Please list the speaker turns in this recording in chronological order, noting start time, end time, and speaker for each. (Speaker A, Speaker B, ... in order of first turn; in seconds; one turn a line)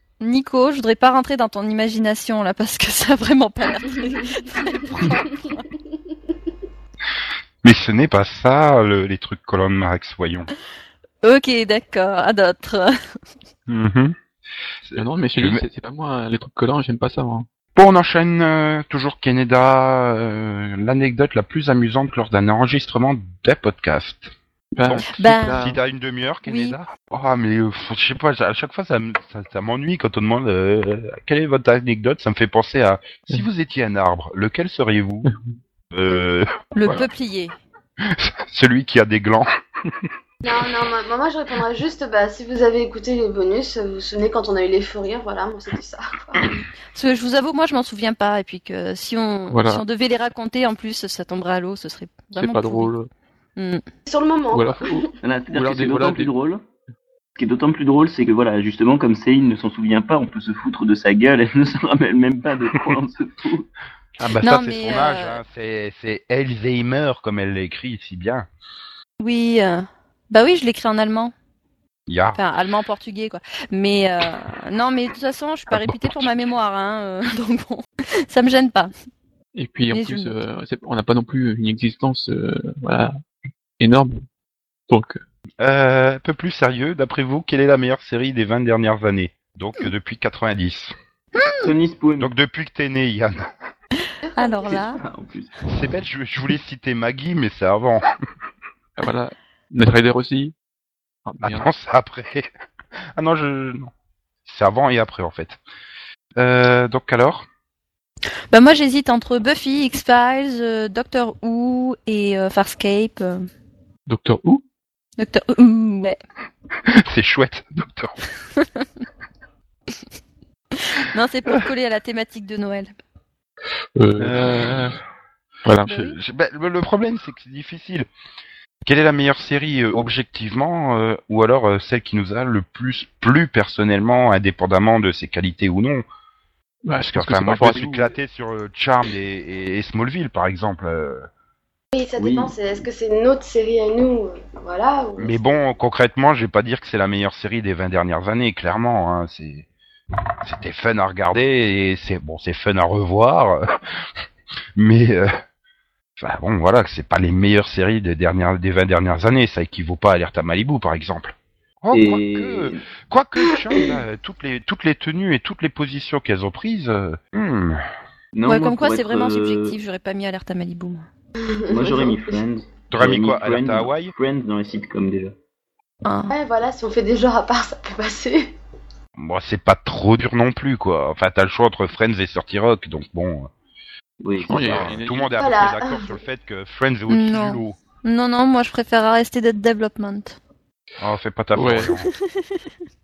Speaker A: 0.2-5.7
Speaker B: 7.6-10.5
Speaker A: 11.2-13.2
Speaker B: 13.7-14.1
Speaker B: 14.8-15.6
Speaker C: 14.9-17.5
Speaker B: 17.7-24.3
Speaker C: 24.7-25.8
Speaker B: 24.8-35.3
Speaker A: 25.1-25.6
Speaker A: 26.4-26.7
Speaker B: 35.9-36.5
Speaker A: 36.7-37.5
Speaker B: 38.0-40.1
Speaker D: 40.4-46.6
Speaker A: 46.9-52.9
Speaker C: 49.5-49.8
Speaker C: 52.4-53.1
Speaker A: 53.5-53.8
Speaker D: 54.0-55.1
Speaker C: 54.5-56.3
Speaker E: 55.2-56.6
Speaker E: 57.3-63.7
Speaker B: 64.2-68.5
Speaker A: 64.4-65.4
Speaker A: 69.2-71.3
Speaker B: 72.1-72.4
Speaker A: 72.3-78.9
Speaker B: 75.7-76.3
Speaker C: 79.5-83.1
Speaker A: 79.9-80.3
Speaker C: 83.8-84.2
Speaker C: 84.9-85.2
Speaker B: 85.6-90.9
Speaker A: 91.3-91.7
Speaker E: 91.6-92.3
Speaker B: 92.2-93.5
Speaker D: 94.2-94.8
Speaker A: 94.3-95.0
Speaker E: 94.8-95.6
Speaker B: 95.7-98.0
Speaker C: 99.0-100.5
Speaker C: 101.2-101.7
Speaker B: 101.4-102.5
Speaker B: 103.2-103.9
Speaker B: 104.4-105.6
Speaker B: 106.4-107.5
Speaker A: 108.5-113.5
Speaker C: 114.1-114.6
Speaker A: 115.2-116.2
Speaker B: 116.8-118.2
Speaker A: 118.5-118.9
Speaker A: 120.7-122.9
Speaker C: 124.0-125.0
Speaker B: 124.2-124.9
Speaker C: 125.6-125.9
Speaker A: 125.8-126.2
Speaker B: 125.9-128.1
Speaker B: 128.8-136.0
Speaker C: 136.8-138.1
Speaker B: 137.0-141.3
Speaker D: 141.9-145.4
Speaker E: 142.2-142.6
Speaker B: 145.2-149.7
Speaker B: 150.4-154.0
Speaker B: 154.8-155.3
Speaker B: 156.2-167.8
Speaker E: 161.9-162.8
Speaker E: 168.3-169.8
Speaker A: 168.4-171.1
Speaker D: 171.4-172.4
Speaker E: 171.7-175.3
Speaker B: 172.9-174.1
Speaker A: 176.0-176.3
Speaker D: 176.3-178.5
Speaker B: 179.2-183.5
Speaker E: 184.2-184.9
Speaker B: 184.4-187.8
Speaker C: 184.5-185.5
Speaker D: 185.4-186.2
Speaker A: 187.1-190.4
Speaker B: 191.0-192.1
Speaker C: 191.6-191.9
Speaker A: 191.9-192.6